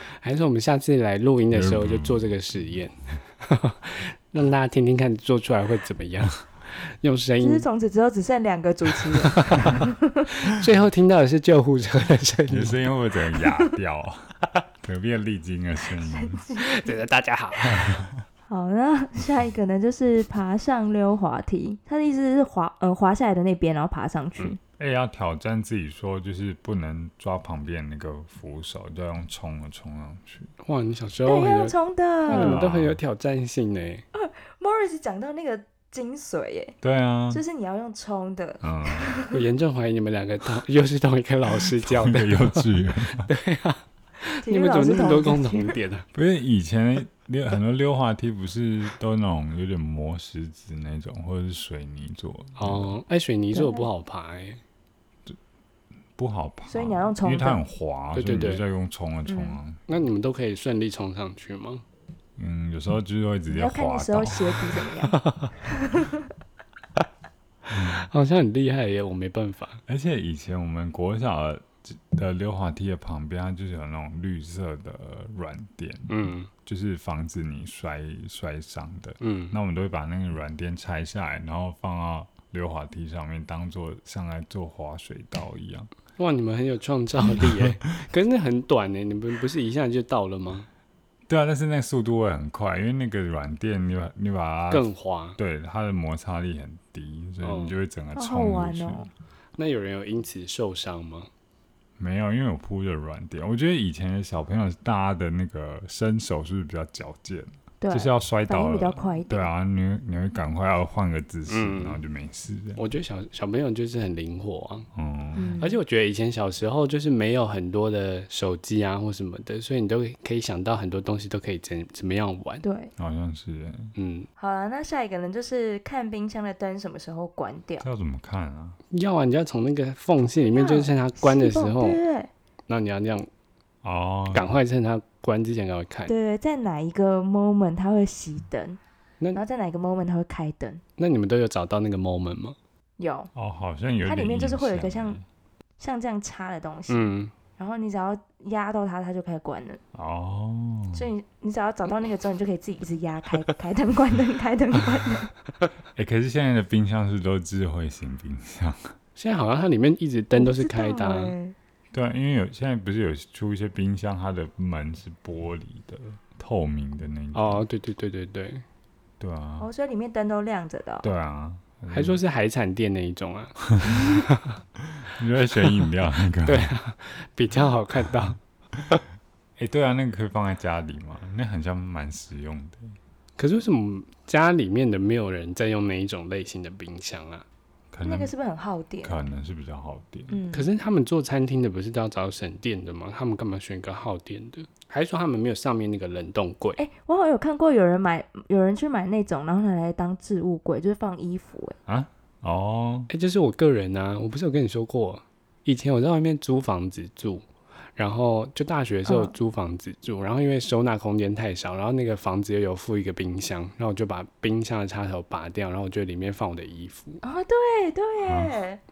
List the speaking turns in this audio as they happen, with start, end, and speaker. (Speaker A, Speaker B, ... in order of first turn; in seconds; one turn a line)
Speaker A: 0.2-7.6
Speaker B: 1.5-2.3
Speaker C: 7.4-10.3
Speaker A: 9.0-12.9
Speaker B: 12.5-14.3
Speaker B: 14.8-16.4
Speaker C: 16.1-16.9
Speaker A: 16.6-18.0
Speaker B: 17.7-18.2
Speaker C: 18.5-24.6
Speaker B: 24.8-30.5
Speaker A: 30.6-31.7
Speaker C: 31.2-32.6
Speaker A: 32.3-34.0
Speaker B: 32.3-33.0
Speaker C: 34.1-36.8
Speaker B: 36.8-37.4
Speaker C: 37.3-39.4
Speaker B: 38.6-39.1
Speaker A: 39.3-46.1
Speaker B: 41.8-43.3
Speaker C: 44.4-45.8
Speaker B: 46.1-52.9
Speaker A: 52.6-54.6
Speaker C: 53.5-53.9
Speaker B: 56.1-59.8
Speaker C: 56.7-57.6
Speaker A: 58.1-58.6
Speaker C: 59.3-59.6
Speaker A: 59.9-61.8
Speaker B: 62.4-64.8
Speaker C: 63.5-66.3
Speaker A: 65.1-65.5
Speaker B: 67.7-68.1
Speaker A: 67.8-69.8
Speaker B: 69.9-85.9
Speaker A: 76.1-76.5
Speaker A: 79.2-79.5
Speaker A: 86.2-90.7
Speaker B: 91.3-99.0
Speaker A: 94.7-95.4
Speaker A: 97.4-97.8
Speaker C: 98.1-99.1
Speaker A: 99.6-101.3
Speaker B: 102.0-112.8
Speaker C: 107.8-109.5
Speaker A: 111.5-112.0
Speaker A: 112.8-114.9
Speaker B: 114.9-115.6
Speaker C: 115.3-115.8
Speaker A: 115.6-122.6
Speaker C: 122.6-122.9
Speaker B: 123.0-123.9
Speaker A: 124.0-124.3
Speaker C: 124.4-127.9
Speaker B: 127.8-128.8
Speaker A: 128.9-132.0
Speaker C: 130.4-132.3
Speaker A: 132.7-133.3
Speaker B: 133.8-134.5
Speaker A: 134.3-136.1
Speaker C: 136.1-138.8
Speaker C: 139.3-140.8
Speaker A: 141.0-142.6
Speaker C: 143.0-143.3
Speaker B: 143.3-145.2
Speaker C: 144.0-145.2
Speaker C: 145.8-149.8
Speaker A: 146.9-147.3
Speaker B: 149.9-151.1
Speaker C: 150.9-155.3
Speaker B: 155.9-158.9
Speaker A: 159.2-161.3
Speaker C: 160.3-161.5
Speaker B: 161.9-167.6
Speaker A: 167.3-168.6
Speaker B: 169.2-169.7
Speaker C: 169.6-171.1
Speaker B: 171.0-172.2
Speaker A: 171.9-174.6
Speaker B: 174.8-176.7
Speaker A: 176.4-178.4
Speaker B: 179.6-182.9
Speaker A: 183.4-187.4
Speaker B: 187.9-188.3
Speaker C: 188.0-189.2
Speaker B: 189.0-190.3
Speaker C: 190.3-190.7
Speaker A: 190.5-196.8
Speaker C: 196.8-201.8
Speaker B: 201.9-203.1
Speaker A: 203.1-207.4
Speaker A: 208.0-217.2
Speaker C: 209.1-209.3
Speaker C: 217.2-218.8
Speaker B: 218.2-218.6